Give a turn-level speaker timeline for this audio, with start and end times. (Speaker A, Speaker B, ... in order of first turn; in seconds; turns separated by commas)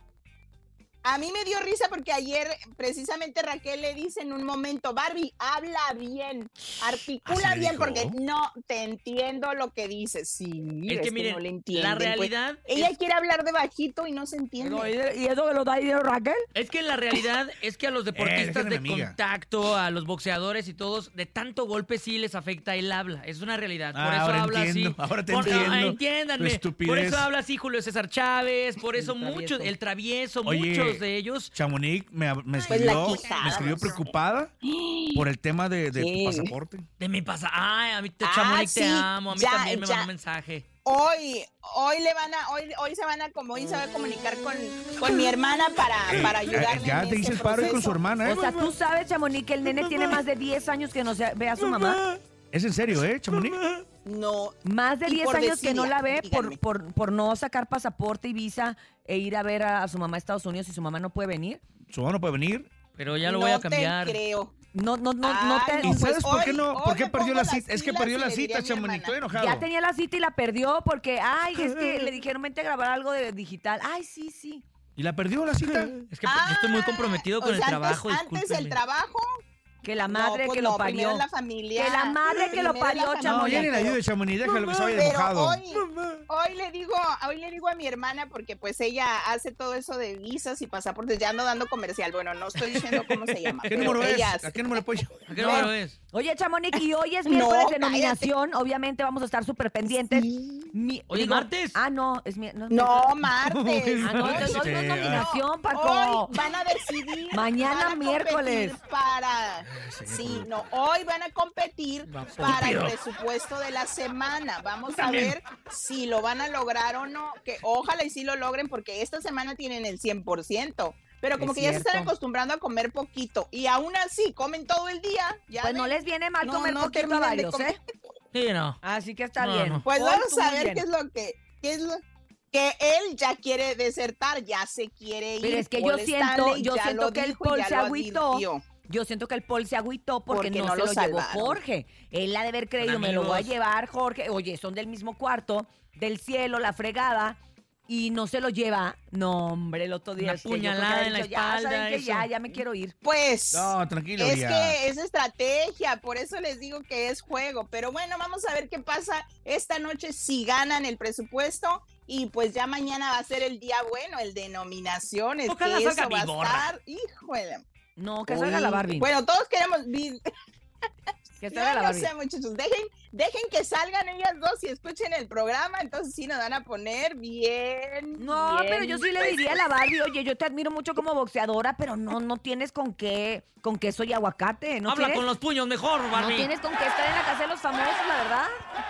Speaker A: 1.0-14.9, Speaker B: 7.2-8.2, Speaker C: 10.9-12.9, Speaker D: 14.6-16.4, Speaker C: 16.5-31.5, Speaker B: 18.1-19.1, Speaker B: 23.9-27.3, Speaker D: 28.9-29.7, Speaker B: 30.4-34.5, Speaker D: 32.7-33.6, Speaker A: 32.7-34.1, Speaker A: 34.6-35.2, Speaker B: 35.1-36.9, Speaker A: 35.9-36.5, Speaker C: 37.0-40.6, Speaker A: 38.2-40.1, Speaker A: 40.9-48.0, Speaker B: 46.1-48.7, Speaker D: 48.2-52.0, Speaker B: 49.6-50.2, Speaker B: 51.6-53.6, Speaker A: 54.0-56.6, Speaker D: 54.6-61.6, Speaker B: 61.9-62.7, Speaker C: 63.0-64.2, Speaker A: 63.2-64.5, Speaker D: 64.7-66.0, Speaker A: 65.2-69.1, Speaker B: 65.8-69.7, Speaker D: 69.3-74.6, Speaker B: 71.6-72.1, Speaker B: 75.0-76.0, Speaker C: 75.7-78.8, Speaker A: 76.2-79.3, Speaker D: 79.8-81.2, Speaker A: 80.1-84.0, Speaker D: 81.8-83.9, Speaker B: 83.2-85.6, Speaker C: 84.4-84.9, Speaker A: 84.9-94.6, Speaker B: 93.6-95.7, Speaker C: 95.3-96.0, Speaker D: 95.4-103.1, Speaker A: 97.2-98.3, Speaker A: 99.9-100.7, Speaker C: 101.1-101.8, Speaker A: 102.7-127.8, Speaker B: 103.4-105.4, Speaker D: 104.0-106.3, Speaker D: 107.3-108.8, Speaker B: 109.6-110.7, Speaker B: 112.1-112.8, Speaker C: 112.4-112.9, Speaker B: 115.0-115.4, Speaker D: 121.4-122.1, Speaker D: 125.6-127.8, Speaker C: 128.3-128.8, Speaker D: 128.8-130.8, Speaker C: 129.4-129.8, Speaker A: 129.9-138.6, Speaker D: 135.4-152.9, Speaker A: 140.3-141.6, Speaker C: 142.8-143.5, Speaker C: 150.2-152.3, Speaker A: 153.0-167.6, Speaker B: 153.5-154.8, Speaker C: 165.5-166.7, Speaker D: 168.0-169.1, Speaker A: 168.3-170.2, Speaker D: 171.4-172.1, Speaker A: 171.5-179.6, Speaker D: 178.2-185.2, Speaker C: 184.9-186.5, Speaker D: 186.1-188.5